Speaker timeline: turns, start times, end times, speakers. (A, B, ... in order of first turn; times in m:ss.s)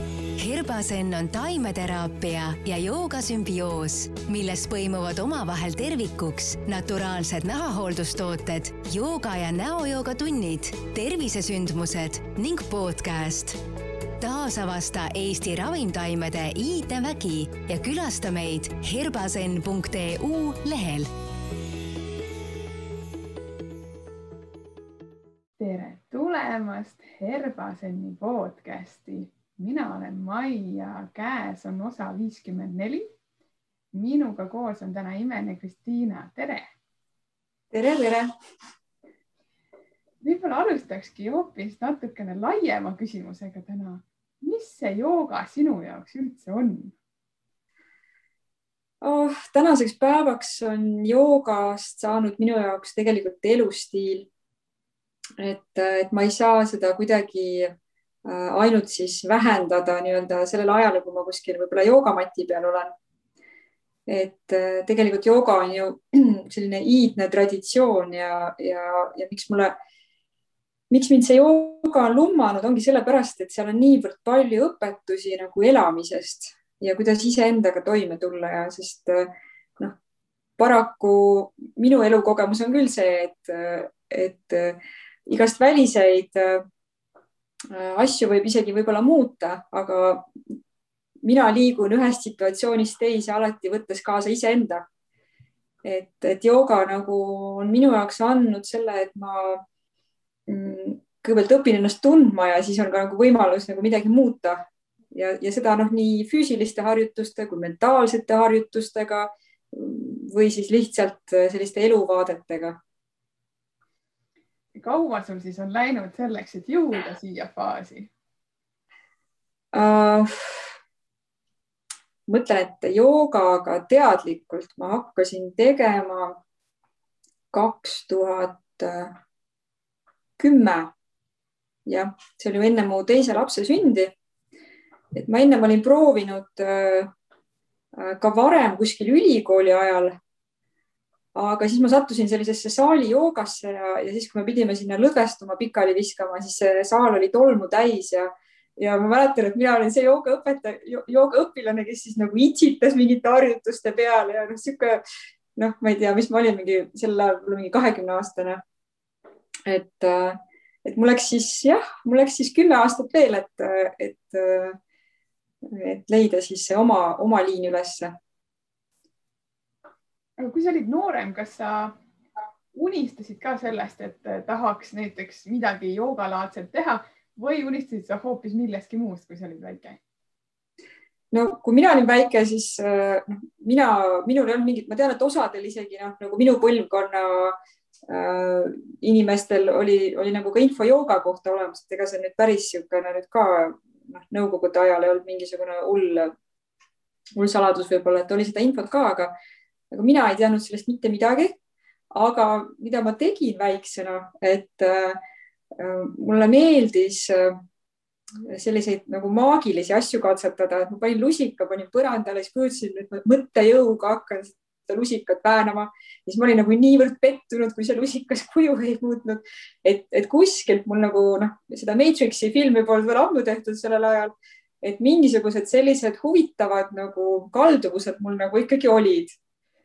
0:00.4-0:13.6 A
0:14.2-0:21.1 A
0:25.6-0:33.1 B
0:33.9-0:36.7 B
0:37.7-0:38.3 C
0:40.2-0:46.9 B
0:49.0-0:54.3 C
0:55.4-0:57.7 C
0:58.2-1:02.9 C
1:04.1-1:09.7 C
1:10.9-1:20.0 C
1:20.6-1:26.6 C
1:27.7-1:30.5 C
1:31.2-1:34.8 C
1:35.8-1:39.6 C
1:40.5-1:44.6 C
1:45.1-1:52.8 C
1:54.7-1:58.1 B
1:59.7-2:00.7 C
2:02.3-2:06.4 C
2:07.5-2:09.2 C
2:10.4-2:10.9 C
2:11.8-2:14.2 C
2:15.1-2:17.1 C
2:17.9-2:20.2 C
2:21.3-2:35.0 C
2:35.6-2:38.6 C
2:39.6-2:44.8 C
2:45.6-2:48.1 C
2:50.4-2:52.0 B
2:52.7-3:00.0 B
3:01.3-3:07.6 C
3:08.1-3:16.3 C
3:17.4-3:19.3 C
3:19.9-3:21.6 C
3:22.1-3:25.2 C
3:25.7-3:27.6 C
3:28.4-3:49.4 C